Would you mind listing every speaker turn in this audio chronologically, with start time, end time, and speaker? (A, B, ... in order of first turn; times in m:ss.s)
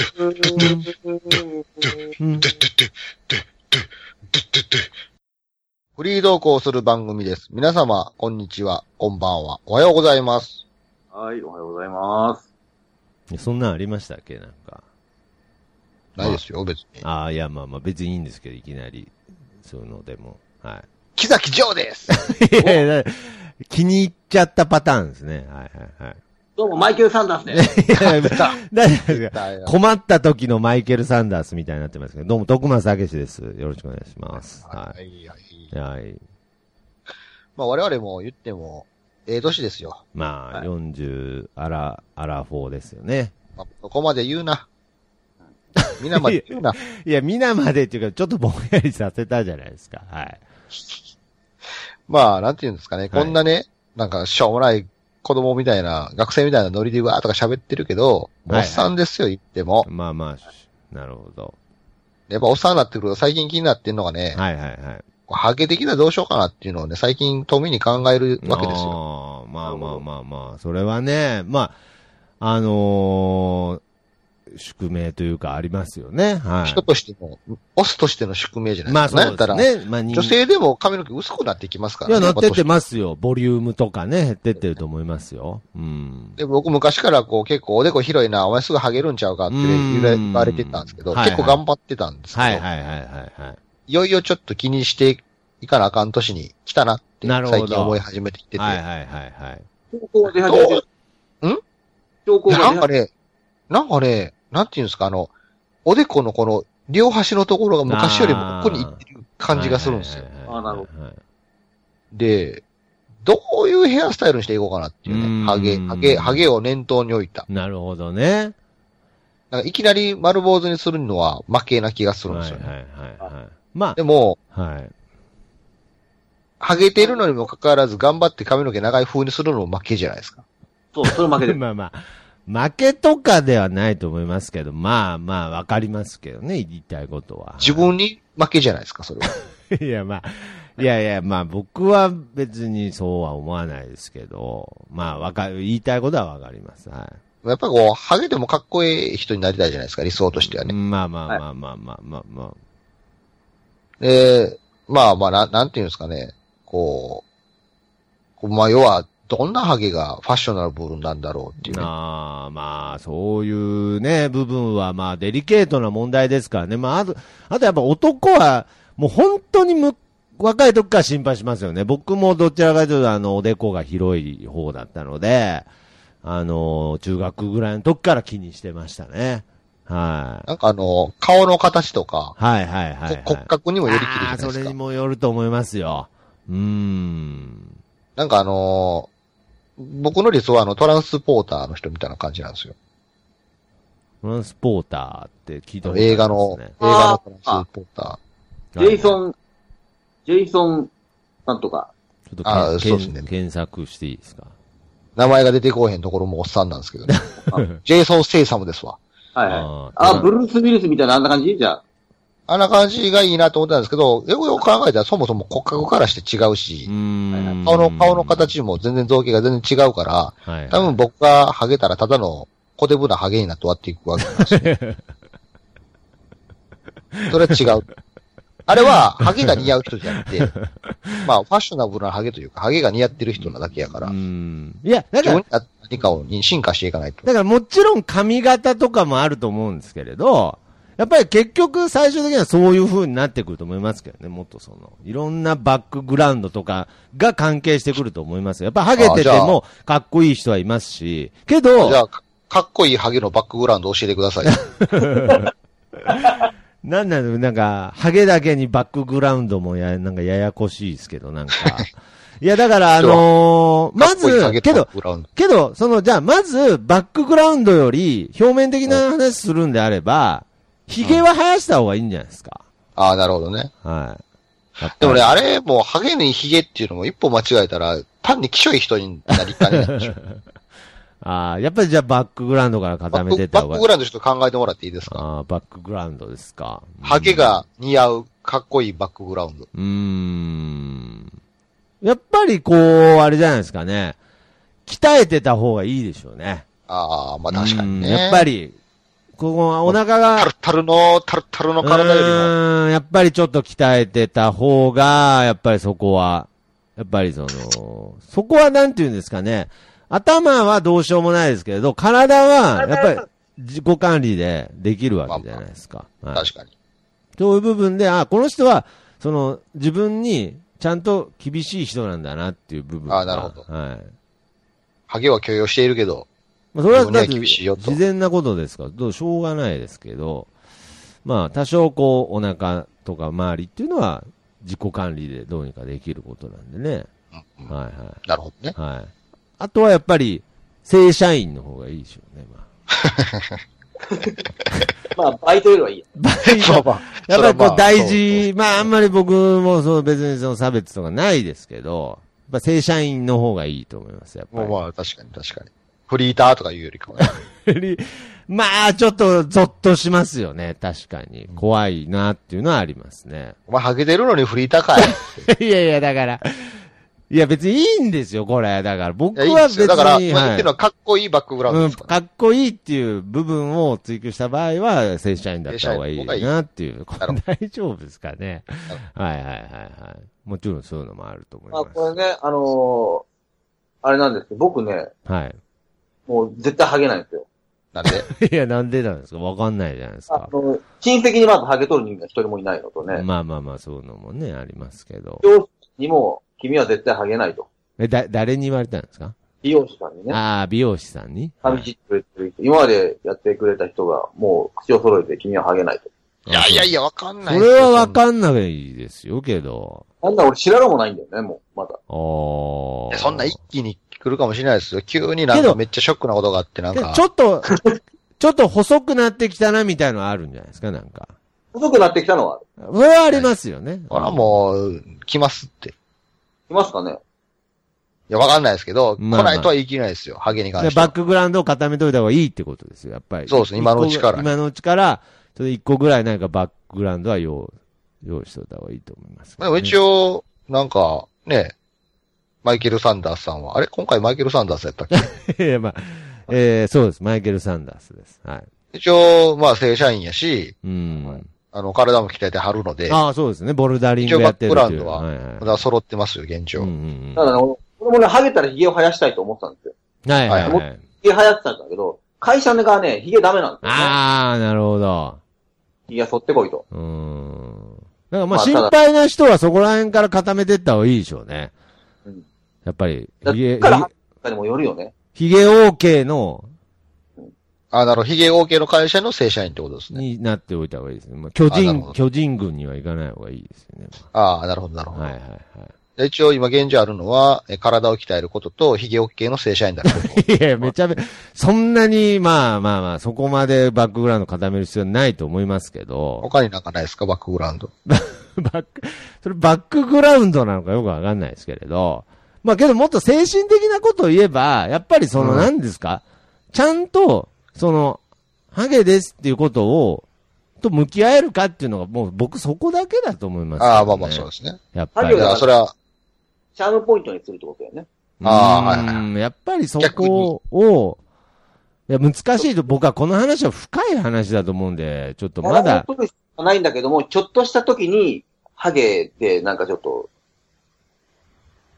0:00.4-0:00.8 A
0:00.5-0:00.9 B
0:02.2-0:02.6 B
0:02.4-0:03.4 A
0:04.4-0:04.8 A
0:06.0-0:10.6 A
0:11.1-0:12.5 C
0:13.3-0:14.8 B
0:16.2-0:17.0 A
0:17.0-0:20.9 B
0:21.2-0:22.2 A
0:22.1-0:26.2 B
0:26.6-0:27.7 C
0:27.5-0:35.0 B
0:27.9-0:29.8 A
0:34.4-0:35.7 A
0:35.7-0:36.2 B
0:37.6-0:40.0 A
0:40.2-0:43.4 B
0:43.6-0:44.7 A
0:45.8-0:50.4 B
0:46.0-0:46.8 A
0:52.1-0:59.9 A
0:53.1-0:53.4 B
0:58.5-0:58.9 B
0:59.8-1:01.6 B
1:02.3-1:04.4 A
1:04.3-1:05.0 B
1:05.3-1:09.0 A
1:08.4-1:11.8 B
1:09.6-1:10.0 C
1:12.4-1:13.8 B
1:14.5-1:16.8 B
1:16.6-1:22.7 A
1:18.9-1:20.4 B
1:22.1-1:26.4 B
1:26.4-1:32.7 A
1:29.5-1:31.6 B
1:32.3-1:33.6 B
1:33.9-1:38.8 A
1:37.2-1:38.0 B
1:38.6-1:39.6 B
1:39.9-1:40.8 C
1:40.2-1:40.8 A
1:42.3-1:42.9 C
1:42.5-1:43.1 A
1:43.7-1:45.3 A
1:45.9-1:50.3 A
1:47.9-1:51.2 B
1:50.5-1:50.9 C
1:52.1-1:52.6 A
1:53.2-1:57.5 A
1:55.1-1:56.5 B
1:57.5-1:58.6 B
1:59.5-2:02.7 A
2:02.3-2:04.0 B
2:04.0-2:04.4 A
2:04.5-2:04.9 B
2:06.6-2:10.4 A
2:07.0-2:07.2 C
2:10.9-2:11.6 C
2:11.0-2:17.9 B
2:17.6-2:19.3 A
2:19.2-2:27.2 B
2:27.4-2:30.8 A
2:30.4-2:32.6 B
2:34.0-2:37.2 A
2:38.4-2:41.9 A
2:41.6-2:55.7 B
2:56.2-3:00.5 B
3:00.5-3:02.4 A
3:02.4-3:07.8 B
3:03.1-3:04.8 A
3:08.2-3:09.1 A
3:09.8-3:12.7 A
3:14.2-3:16.8 B
3:15.8-3:18.2 A
3:16.8-3:17.6 C
3:18.8-3:19.2 B
3:18.8-3:19.4 C
3:20.3-3:20.9 C
3:21.5-3:21.9 C
3:22.3-3:24.5 B
3:22.4-3:23.3 A
3:25.2-3:27.1 A
3:27.1-3:27.7 B
3:27.8-3:29.0 A
3:29.4-3:31.8 C
3:29.5-3:30.3 B
3:32.5-3:36.9 A
3:36.9-3:38.5 B
3:37.6-3:44.7 A
3:40.5-3:40.9 B
3:44.2-3:45.0 B
3:47.2-3:47.8 B
3:47.3-3:47.8 A
3:48.7-3:50.5 A
3:49.4-3:49.7 B
3:50.2-3:51.3 B
3:51.2-3:54.1 A
3:53.4-3:55.4 B
3:55.2-3:57.3 A
3:57.2-4:12.0 B
4:09.0-4:09.6 A
4:11.8-4:14.6 A
4:14.6-4:15.5 B
4:15.2-4:15.5 C
4:16.2-4:21.9 B
4:21.6-4:21.8 A
4:22.4-4:32.6 B
4:23.0-4:23.3 A
4:23.9-4:25.3 A
4:31.0-4:31.3 A
4:33.0-4:33.7 A
4:33.8-4:34.2 B
4:34.8-4:35.4 B
4:34.8-4:40.1 A
4:39.8-4:40.4 B
4:41.2-4:43.8 B
4:43.1-4:45.3 A
4:45.1-4:47.6 B
4:47.0-4:49.7 A
4:49.7-4:51.3 B
4:52.0-4:54.2 B
4:54.9-4:56.7 B
4:56.9-4:58.5 A
4:57.5-4:58.8 B
4:59.4-5:00.5 B
4:59.8-5:02.5 A
5:01.8-5:16.5 B
5:15.3-5:15.6 A
5:16.3-5:16.7 A
5:17.4-5:24.1 B
5:23.1-5:23.7 A
5:25.1-5:26.3 A
5:26.7-5:30.5 B
5:26.9-5:28.0 A
5:31.2-5:37.1 B
5:37.5-5:38.8 A
5:37.7-5:38.2 B
5:38.8-5:42.7 B
5:43.1-5:43.5 A
5:44.1-5:44.4 C
5:45.1-5:46.1 C
5:46.2-5:54.8 B
5:46.4-5:48.5 A
5:54.5-5:57.4 A
5:57.2-6:03.6 B
6:03.7-6:05.5 A
6:05.0-6:10.7 B
6:09.4-6:12.2 A
6:11.7-6:22.2 B
6:15.7-6:16.6 A
6:21.7-6:23.2 C
6:24.0-6:25.1 C
6:25.3-6:25.6 B
6:26.3-6:27.5 C
6:28.0-6:28.3 A
6:28.0-6:30.5 B
6:30.3-6:33.3 C
6:33.1-6:35.4 B
6:35.4-6:37.7 C
6:38.0-6:39.4 B
6:39.6-6:40.4 C
6:40.3-6:41.9 B
6:41.6-6:46.1 C
6:46.5-6:46.9 B
6:46.5-6:48.2 A
6:47.4-6:50.0 B
6:50.2-6:52.0 C
6:52.1-6:53.6 B
6:53.1-6:57.2 A
6:55.5-6:55.8 B
6:56.9-7:01.3 B
7:01.7-7:02.6 C
7:02.8-7:04.6 B
7:04.1-7:05.9 A
7:06.7-7:07.2 C
7:08.3-7:11.2 A
7:09.2-7:09.7 B
7:10.8-7:20.0 B
7:13.5-7:14.5 A
7:19.6-7:21.7 A
7:22.6-7:25.2 A
7:25.1-7:28.7 B
7:28.9-7:30.8 A
7:30.8-7:31.5 B
7:31.1-7:31.4 C
7:31.7-7:33.2 A
7:33.1-7:35.8 B
7:34.2-7:36.9 A
7:36.8-7:37.6 B
7:37.4-7:39.9 C
7:40.3-7:41.0 B
7:40.5-7:40.8 A
7:40.7-7:44.2 C
7:43.8-7:45.4 B
7:46.1-7:46.8 C
7:46.9-7:51.7 B
7:48.5-7:48.9 C
7:52.8-7:54.1 B
7:53.4-7:55.1 C
7:55.4-7:56.7 B
7:57.9-8:00.2 A
8:00.1-8:04.3 B
8:01.7-8:02.2 A
8:04.3-8:05.4 A
8:05.1-8:05.9 B
8:06.2-8:10.9 A
8:10.0-8:16.5 B
8:16.4-8:17.9 A
8:18.1-8:28.2 B
8:25.4-8:25.7 A
8:28.7-8:30.3 B
8:30.8-8:35.4 B
8:33.8-8:34.8 A
8:35.2-8:35.7 C
8:35.4-8:35.9 A
8:36.8-8:38.1 C
8:38.4-8:41.2 B
8:38.4-8:39.3 A
8:40.0-8:40.5 A
8:42.1-8:46.1 B
8:45.6-8:50.3 C